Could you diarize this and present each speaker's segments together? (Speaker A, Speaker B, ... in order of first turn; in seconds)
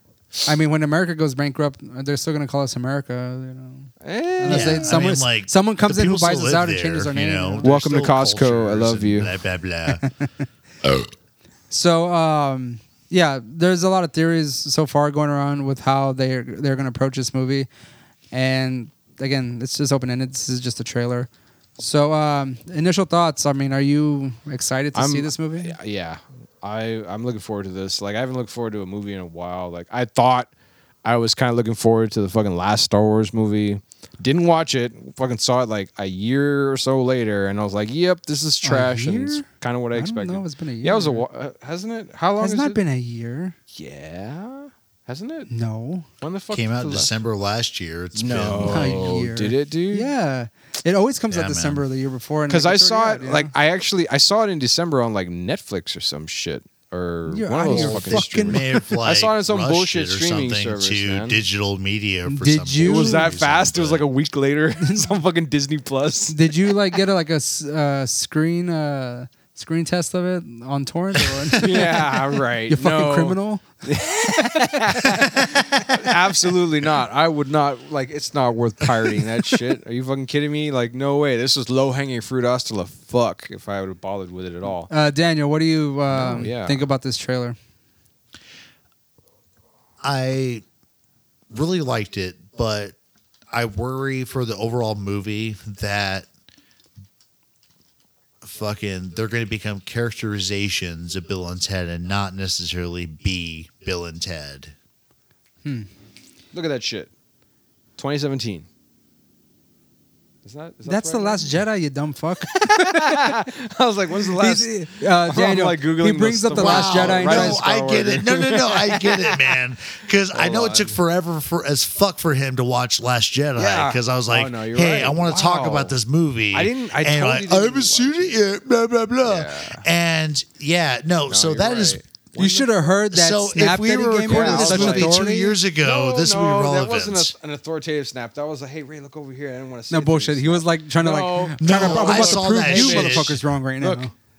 Speaker A: 0.5-7.7, 10.0-10.2, 11.7-17.7, 18.3-25.8, 38.6-41.2, 42.4-43.5, 45.5-46.1, 48.6-53.5, 57.3-58.9, 62.3-63.3, 64.8-65.1, 66.3-73.7, 75.0-75.2, 84.9-87.6, 105.6-105.9, 110.9-113.4, 114.3-117.6, 132.3-135.6, 139.9-144.1
Speaker B: 4.0-5.1, 7.6-9.3, 24.9-30.5, 31.1-42.8, 43.7-45.5, 46.2-47.2, 48.1-50.1, 52.5-61.4, 62.8-66.7, 71.2-84.9, 86.1-86.8, 106.5-107.1, 108.0-108.7, 110.5-111.6, 112.5-119.6, 120.3-121.0, 123.6-126.0, 126.5-128.4, 129.2-129.8, 131.3-132.7, 134.2-135.2, 135.8-144.1
Speaker C: 4.5-10.1, 46.5-49.1, 51.3-51.8, 57.7-64.1, 90.0-90.6, 91.5-93.0, 93.5-96.3, 98.4-104.7, 116.5-132.0, 133.1-137.3, 141.6-143.4